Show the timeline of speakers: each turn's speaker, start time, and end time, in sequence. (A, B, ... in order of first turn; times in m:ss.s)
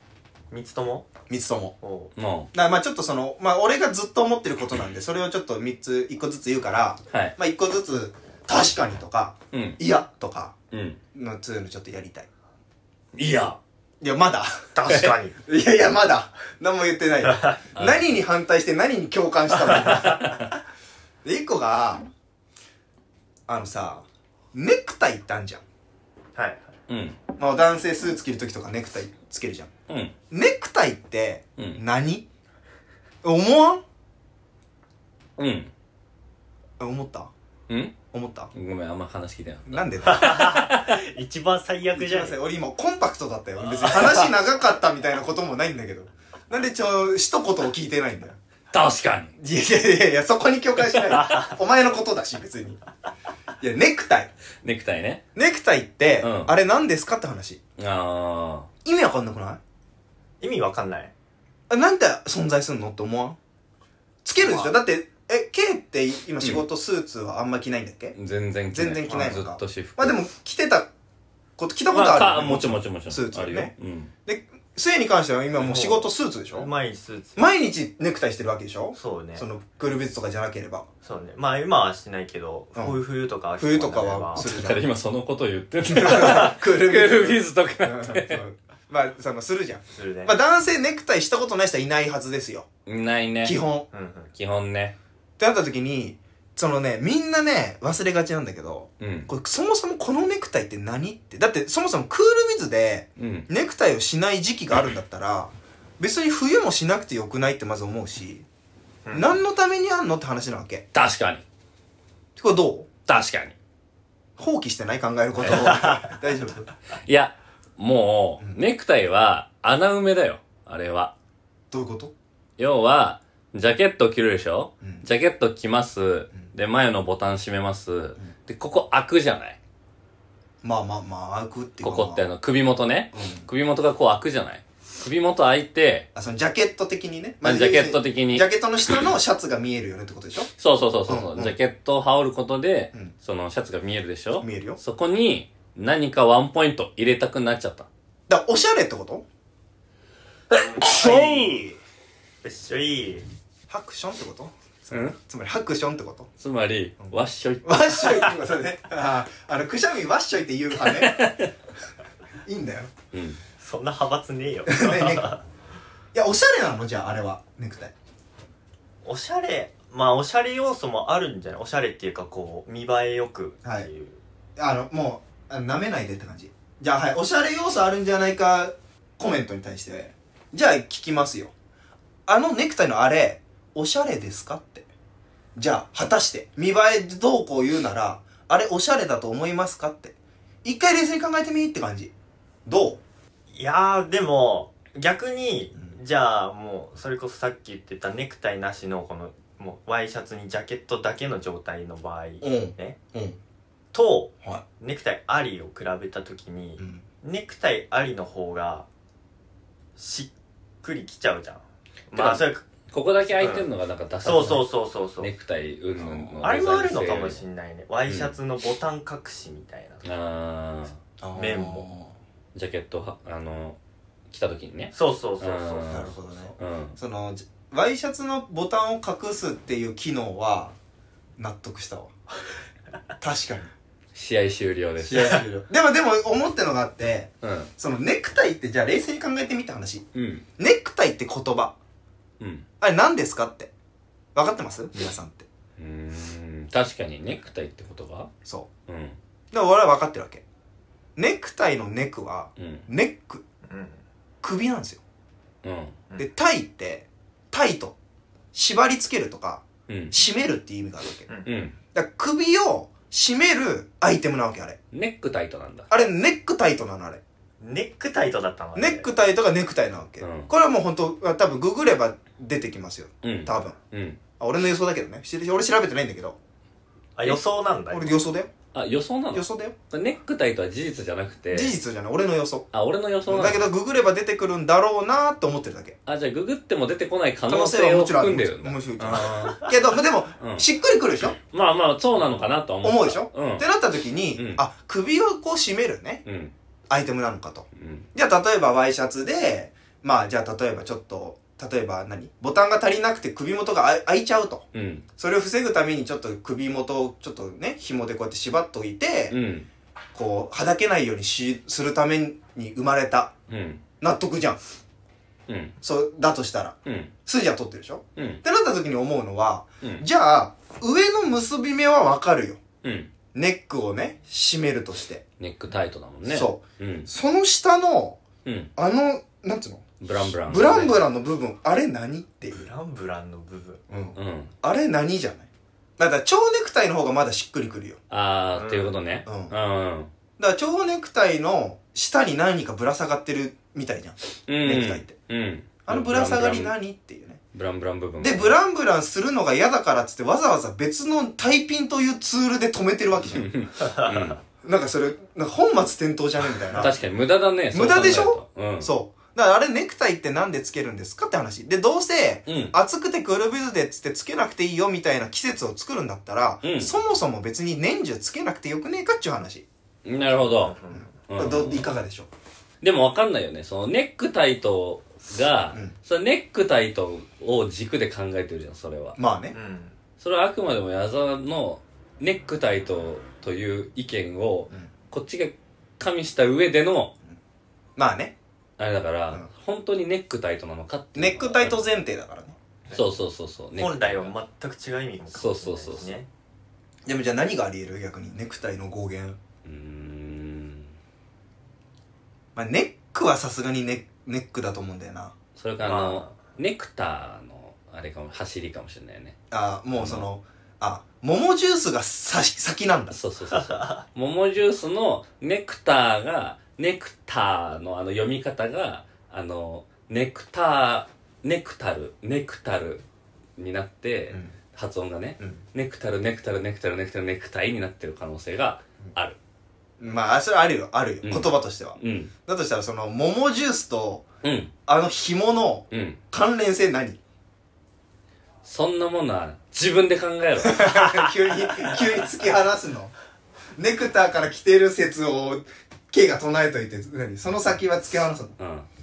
0:00.5-0:01.1 A
0:01.3-0:01.8 B
0:01.8-0:02.1 A
0:02.2-0:02.5 C
0:02.5-0:10.5 B
0:07.1-0:07.4 C
0:09.5-0:09.8 C
0:10.7-0:11.0 C
0:11.1-0:12.3 B
0:13.1-0:13.6 C
0:14.0-0:20.5 B
0:14.7-0:15.4 A
0:17.2-0:17.6 A
0:17.7-0:18.0 C
0:21.2-0:22.0 B
0:23.5-0:25.6 B
0:26.3-0:26.7 A
0:26.9-0:27.2 C
0:27.4-0:29.7 B
0:29.9-0:30.1 C
0:30.3-0:32.2 B
0:31.6-0:31.8 C
0:33.2-0:33.8 B
0:35.4-0:35.7 C
0:36.8-0:37.3 B
0:37.7-0:37.9 C
0:38.1-0:38.5 B
0:38.5-0:40.9 C
0:39.7-0:40.7 B
0:40.1-0:42.4 A
0:41.9-0:48.4 B
0:43.7-0:44.3 A
0:48.7-0:49.4 C
0:49.4-0:52.8 B
0:51.1-0:51.5 A
0:53.6-0:54.3 B
0:54.6-0:55.2 C
0:55.3-0:57.6 B
0:56.2-0:56.5 C
0:57.8-0:58.7 C
0:58.8-0:59.6 B
1:00.4-1:01.1 A
1:01.7-1:03.4 B
1:04.2-1:08.2 B
1:08.1-1:10.2 C
1:08.7-1:10.9 B
1:09.1-1:09.3 A
1:11.6-1:13.7 B
1:11.9-1:14.1 C
1:14.2-1:16.7 B
1:15.6-1:17.5 A
1:17.4-1:20.9 B
1:18.9-1:19.4 A
1:21.0-1:24.5 A
1:22.8-1:23.0 B
1:23.6-1:24.9 B
1:24.4-1:28.4 C
1:25.9-1:32.7 B
1:29.9-1:30.3 A
1:32.8-1:33.6 C
1:33.4-1:33.9 B
1:33.9-1:34.3 A
1:34.3-1:35.0 C
1:35.4-1:48.4 B
1:39.0-1:39.3 C
1:43.2-1:43.5 C
1:49.0-1:49.3 A
1:49.1-1:50.8 B
1:50.9-1:51.4 C
1:52.4-1:52.9 B
1:53.0-1:53.5 C
1:54.4-1:56.7 B
1:55.4-1:55.7 C
1:57.0-2:01.1 C
2:01.7-2:02.1 B
2:02.6-2:09.6 C
2:04.8-2:05.0 B
2:10.6-2:12.2 B
2:11.8-2:16.1 C
2:13.1-2:13.5 B
2:16.1-2:20.5 B
2:17.4-2:18.5 C
2:20.6-2:27.9 C
2:21.1-2:21.6 B
2:24.4-2:24.8 B
2:28.3-2:29.2 B
2:30.7-2:31.7 C
2:30.8-2:31.3 A
2:30.8-2:31.8 B
2:32.4-2:33.2 A
2:33.7-2:36.3 B
2:34.9-2:35.2 C
2:36.4-2:38.3 C
2:37.0-2:41.3 B
2:40.8-2:41.5 C
2:42.4-2:42.9 B
2:43.1-2:43.4 C
2:43.6-2:45.4 A
2:44.7-2:45.3 B
2:46.1-2:47.9 B
2:49.0-2:54.2 A
2:54.6-3:01.5 B
3:02.3-3:04.9 B
3:05.6-3:12.1 B
3:12.6-3:13.0 B
3:13.5-3:23.0 A
3:22.4-3:23.4 B
3:23.9-3:28.9 A
3:26.8-3:27.0 B
3:30.0-3:32.6 A
3:32.1-3:37.4 C
3:33.4-3:33.7 A
3:34.2-3:35.3 A
3:36.0-3:36.3 B
3:36.4-3:40.1 A
3:38.1-3:38.3 C
3:40.0-3:41.0 C
3:41.2-3:42.1 B
3:41.3-3:41.9 A
3:42.5-3:43.8 C
3:44.3-3:47.0 C
3:44.9-3:46.1 A
3:45.9-3:50.7 B
3:51.4-3:52.1 B
3:53.2-3:53.7 B
3:54.1-3:55.4 C
3:55.0-4:00.1 B
3:57.4-3:57.7 C
4:00.1-4:00.4 C
4:00.6-4:01.8 B
4:02.4-4:02.7 C
4:02.8-4:03.7 B
4:04.3-4:05.5 B
4:05.8-4:08.3 C
4:08.4-4:08.7 B
4:08.9-4:09.2 C
4:09.5-4:10.4 B
4:11.2-4:13.4 B
4:12.6-4:12.9 C
4:13.7-4:14.0 A
4:14.4-4:15.0 B
4:15.6-4:16.0 C
4:16.2-4:18.0 B
4:18.5-4:21.3 B
4:19.9-4:20.2 C
4:21.4-4:21.8 C
4:21.9-4:24.8 B
4:24.9-4:25.9 C
4:25.9-4:27.2 B
4:27.6-4:29.1 A
4:28.7-4:33.8 B
4:30.2-4:30.5 C
4:33.2-4:34.2 C
4:34.4-4:36.4 B
4:37.2-4:38.2 A
4:37.9-4:38.5 B
4:38.7-4:41.7 C
4:39.3-4:39.8 B
4:41.5-4:42.7 B
4:42.7-4:43.7 C
4:43.3-4:46.0 B
4:46.0-4:49.7 C
4:47.5-4:51.4 B
4:50.4-4:50.6 C
4:51.4-4:53.6 C
4:52.8-4:56.2 B
4:54.3-4:54.6 C
4:56.2-4:56.5 C
4:56.9-5:09.4 B
4:57.8-4:58.1 C
5:04.7-5:05.0 C
5:09.3-5:09.7 C
5:10.1-5:13.3 B
5:13.5-5:13.8 C
5:14.0-5:14.6 B
5:15.5-5:15.8 C
5:15.8-5:22.6 B
5:16.8-5:17.1 C
5:18.2-5:18.4 C
5:22.8-5:23.1 C
5:23.3-5:25.2 B
5:25.4-5:27.1 C
5:26.3-5:28.2 B
5:28.4-5:28.7 C
5:28.8-5:32.6 B
5:30.0-5:31.0 C
5:32.5-5:33.8 A
5:33.9-5:35.5 B
5:34.1-5:34.5 C
5:36.0-5:38.0 B
5:38.1-5:40.1 C
5:38.5-5:38.9 A
5:39.2-5:39.5 B
5:40.4-5:45.1 B
5:44.5-5:46.7 C
5:45.8-5:47.4 B
5:47.5-5:48.6 C
5:48.2-5:53.5 B
5:53.3-5:54.4 C
5:54.6-5:56.9 B
5:56.8-5:58.9 C
5:57.7-6:09.6 B
6:02.5-6:02.8 C
6:06.6-6:06.9 C
6:10.0-6:10.8 C
6:10.4-6:11.1 A
6:11.3-6:11.9 C
6:11.3-6:12.3 B
6:12.8-6:19.2 C
6:19.2-6:19.5 B
6:19.5-6:19.9 A
6:20.2-6:27.1 C
6:28.0-6:28.3 B
6:28.8-6:31.8 C
6:31.1-6:32.6 B
6:32.9-6:34.3 C
6:33.8-6:36.3 A
6:35.3-6:36.2 C
6:37.0-6:39.4 B
6:39.6-6:40.9 C
6:42.5-6:45.3 B
6:45.6-6:49.4 C
6:45.8-6:46.3 A
6:49.5-6:53.2 B
6:50.0-6:50.3 C
6:53.1-7:03.0 C
6:53.5-6:54.0 A
7:03.6-7:09.4 C
7:10.0-7:14.3 B
7:11.2-7:12.3 C
7:14.4-7:14.7 C
7:14.9-7:17.2 B
7:15.9-7:16.2 C
7:18.6-7:21.2 C
7:20.6-7:23.1 B
7:23.8-7:28.5 B
7:28.6-7:28.9 C